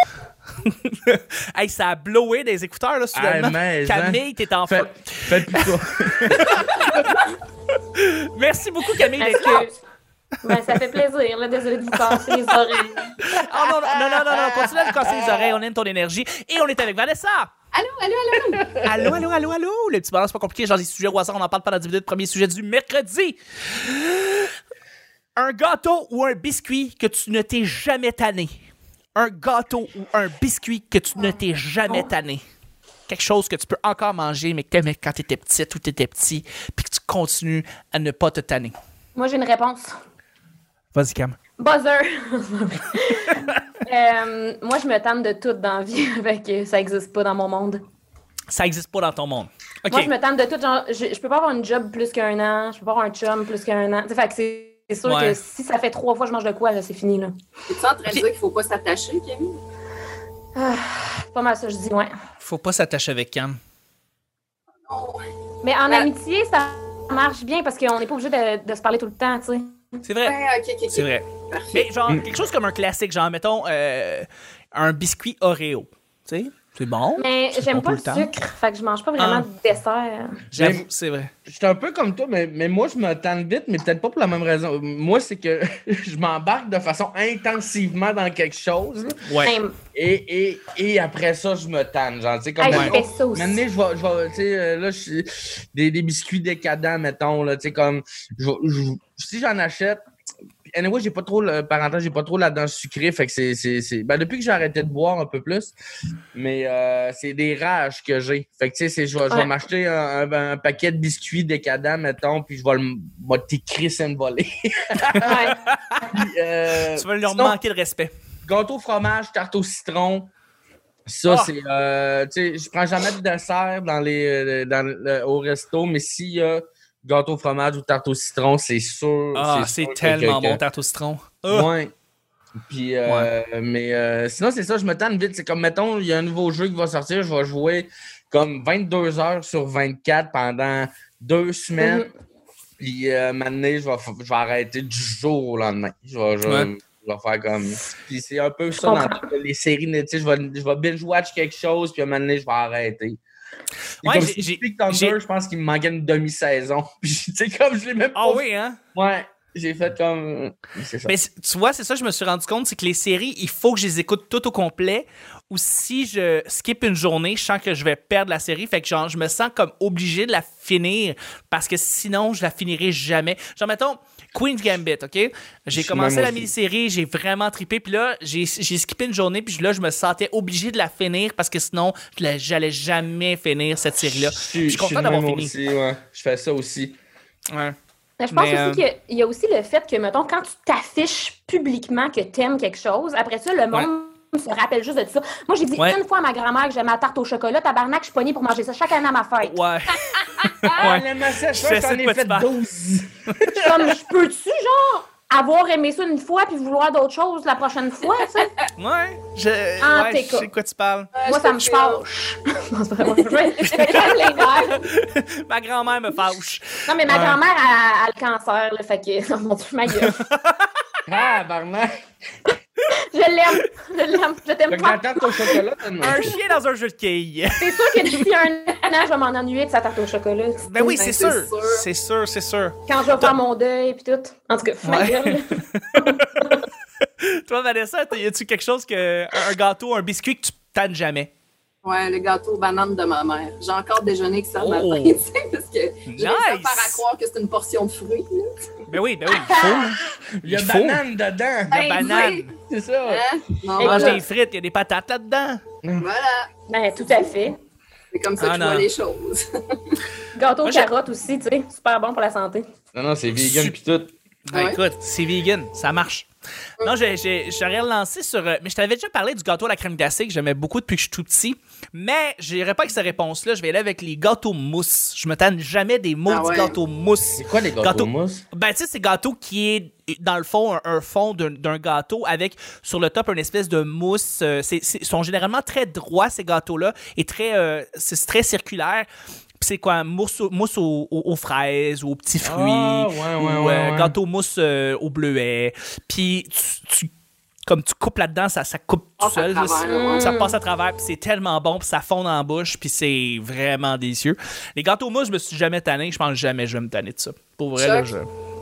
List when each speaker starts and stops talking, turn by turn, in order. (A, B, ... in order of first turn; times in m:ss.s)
0:00.6-0:07.3 A
0:03.1-0:06.7 B
0:07.9-0:09.7 A
0:09.2-0:09.8 C
0:10.4-0:13.2 C
0:12.1-0:12.4 A
0:13.2-0:17.5 A
0:13.7-0:15.4 B
0:17.7-0:18.7 D
0:18.8-0:24.5 A
0:25.4-0:28.5 A
0:29.2-0:32.4 A
0:33.1-0:38.8 A
0:39.2-0:39.9 C
0:40.9-0:41.4 A
0:41.6-0:47.8 C
0:48.5-0:50.1 A
0:49.9-0:57.4 C
0:55.0-0:55.4 A
0:57.7-0:59.6 D
1:00.6-1:02.1 C
1:02.4-1:03.6 A
1:04.9-1:05.2 D
1:05.6-1:09.9 C
1:10.0-1:10.4 A
1:10.2-1:11.9 D
1:10.9-1:18.3 A
1:17.2-1:20.4 C
1:19.2-1:19.5 A
1:20.5-1:21.3 A
1:20.6-1:20.9 B
1:21.5-1:29.1 B
1:29.3-1:29.5 A
1:29.4-1:29.8 C
1:29.9-1:40.0 B
1:32.6-1:33.6 C
1:32.7-1:33.0 A
1:40.7-1:45.7 B
1:46.3-1:55.5 B
1:55.1-1:56.0 A
1:55.2-1:55.6 C
1:56.0-1:57.6 B
1:57.0-1:58.1 A
1:58.5-2:00.3 B
2:01.1-2:10.6 B
2:09.4-2:11.7 A
2:11.5-2:11.9 B
2:12.6-2:22.1 B
2:21.8-2:22.1 C
2:22.8-2:33.2 B
2:28.8-2:29.3 C
2:34.0-2:35.2 A
2:34.0-2:38.4 B
2:38.2-2:38.8 A
2:39.0-2:41.1 B
2:41.1-3:05.5 A
2:55.7-2:56.5 B
3:04.1-3:07.0 B
3:08.2-3:19.6 C
3:08.3-3:08.8 A
3:19.4-3:22.5 A
3:20.8-3:23.7 B
3:23.6-3:28.6 C
3:28.8-3:31.1 A
3:29.8-3:30.5 C
3:31.1-3:32.0 D
3:31.3-3:34.8 C
3:33.6-3:37.4 A
3:36.9-3:40.2 C
3:40.0-3:40.7 A
3:41.1-3:42.0 B
3:42.9-3:45.6 C
3:44.7-3:46.3 B
3:46.0-3:48.2 A
3:47.6-3:51.0 C
3:50.6-3:53.3 A
3:50.8-3:51.9 D
3:52.9-3:56.6 C
3:54.8-3:56.4 A
3:57.2-4:01.3 A
4:01.8-4:08.7 D
4:04.6-4:05.2 A
4:06.1-4:07.0 A
4:08.9-4:11.0 A
4:09.3-4:09.9 C
4:09.9-4:11.9 B
4:11.7-4:12.5 D
4:11.7-4:12.6 A
4:12.6-4:13.2 B
4:13.0-4:14.2 D
4:13.8-4:14.2 C
4:13.8-4:15.6 A
4:15.8-4:16.1 B
4:16.0-4:16.5 D
4:16.7-4:17.6 C
4:18.1-4:20.0 D
4:18.4-4:18.9 A
4:20.3-4:22.6 C
4:20.6-4:20.9 A
4:22.9-4:24.1 B
4:23.4-4:23.8 A
4:24.5-4:26.3 A
4:24.5-4:24.8 D
4:26.8-4:49.1 A
4:36.3-4:36.8 D
4:37.2-4:38.4 B
4:49.6-4:57.1 A
4:52.4-4:54.2 B
4:57.7-5:08.3 A
4:59.2-5:00.3 D
4:59.8-5:00.6 C
5:07.8-5:08.1 D